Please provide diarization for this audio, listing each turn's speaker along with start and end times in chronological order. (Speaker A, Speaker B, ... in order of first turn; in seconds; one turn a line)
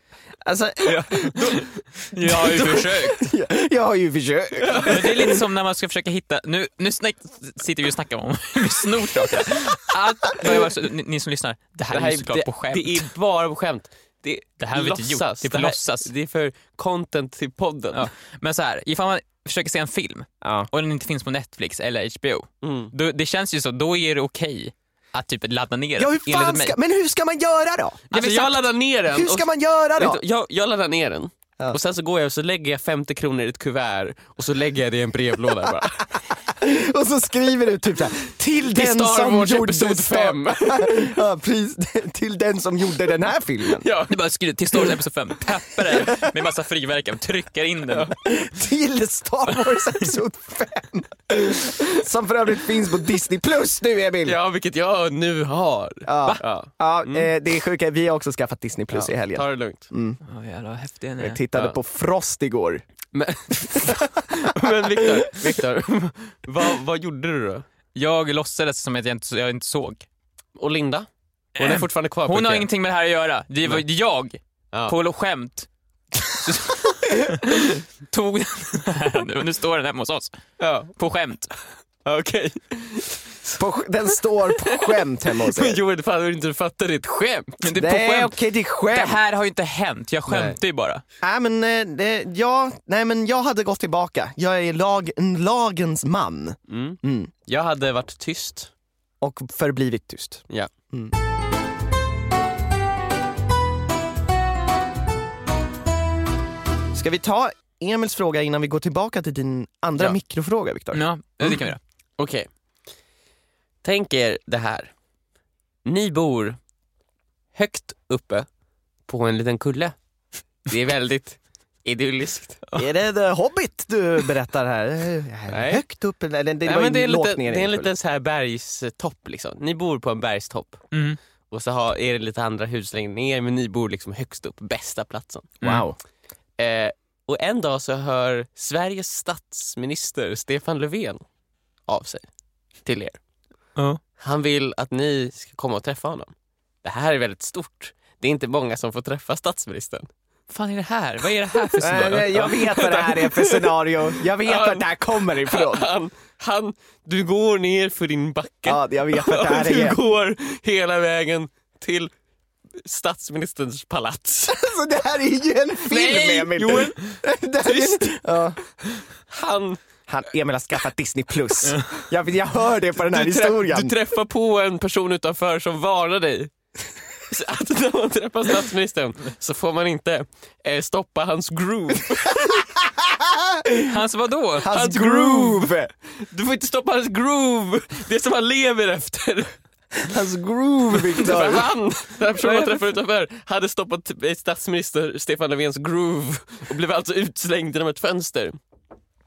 Speaker A: 0.5-1.2
Speaker B: 0.8-3.2
Speaker C: 1.2-1.7
Speaker A: 2.3-5.2
Speaker C: 4.6-5.3
Speaker B: 4.8-13.1
Speaker C: 11.9-18.0
Speaker B: 14.6-16.1
Speaker B: 17.9-26.7
Speaker A: 20.4-20.7
Speaker C: 22.6-22.9
Speaker A: 26.0-28.1
Speaker C: 28.1-36.2
Speaker B: 28.1-28.7
Speaker A: 29.1-30.2
Speaker A: 36.5-43.9
Speaker C: 38.6-41.1
Speaker C: 43.7-44.1
Speaker B: 44.1-48.1
Speaker A: 45.9-46.2
Speaker A: 48.2-54.4
Speaker C: 54.2-57.3
Speaker A: 56.0-60.2
Speaker C: 58.9-59.9
Speaker B: 60.3-61.4
Speaker A: 61.2-62.9
Speaker C: 63.1-67.7
Speaker A: 63.9-64.2
Speaker B: 68.0-70.1
Speaker C: 70.6-71.1
Speaker B: 71.6-75.7
Speaker C: 71.6-72.7
Speaker B: 76.3-80.4
Speaker C: 80.6-80.9
Speaker B: 81.0-81.5
Speaker C: 82.0-83.6
Speaker A: 83.6-85.8
Speaker C: 84.5-87.6
Speaker B: 87.6-88.3
Speaker A: 87.8-89.2
Speaker B: 88.9-91.0
Speaker C: 90.3-90.6
Speaker A: 91.2-97.3
Speaker C: 96.7-98.7
Speaker A: 99.2-101.1
Speaker A: 106.9-111.0
Speaker B: 110.9-111.8
Speaker C: 112.2-112.5
Speaker C: 113.8-114.9
Speaker C: 115.8-116.6
Speaker C: 117.5-118.5
Speaker C: 119.1-120.0
Speaker C: 120.6-122.7
Speaker A: 122.8-127.9
Speaker C: 125.5-125.8
Speaker C: 126.6-130.9
Speaker B: 130.9-131.2
Speaker C: 131.5-135.6
Speaker A: 135.6-136.0
Speaker C: 136.6-141.3
Speaker C: 141.9-142.3
Speaker C: 142.8-143.2
Speaker C: 144.2-146.3
Speaker C: 146.8-150.1
Speaker B: 150.5-152.6
Speaker A: 151.8-155.9
Speaker C: 152.4-162.1
Speaker A: 158.7-160.0
Speaker C: 162.8-164.6
Speaker A: 164.5-168.6
Speaker C: 165.9-168.2
Speaker C: 168.8-169.8
Speaker A: 170.1-173.9
Speaker C: 173.0-176.5
Speaker C: 177.3-182.5
Speaker A: 182.4-183.9
Speaker B: 183.9-184.7
Speaker A: 184.6-185.9
Speaker C: 184.7-189.6
Speaker A: 190.0-191.7
Speaker C: 191.1-198.6
Speaker B: 192.4-192.7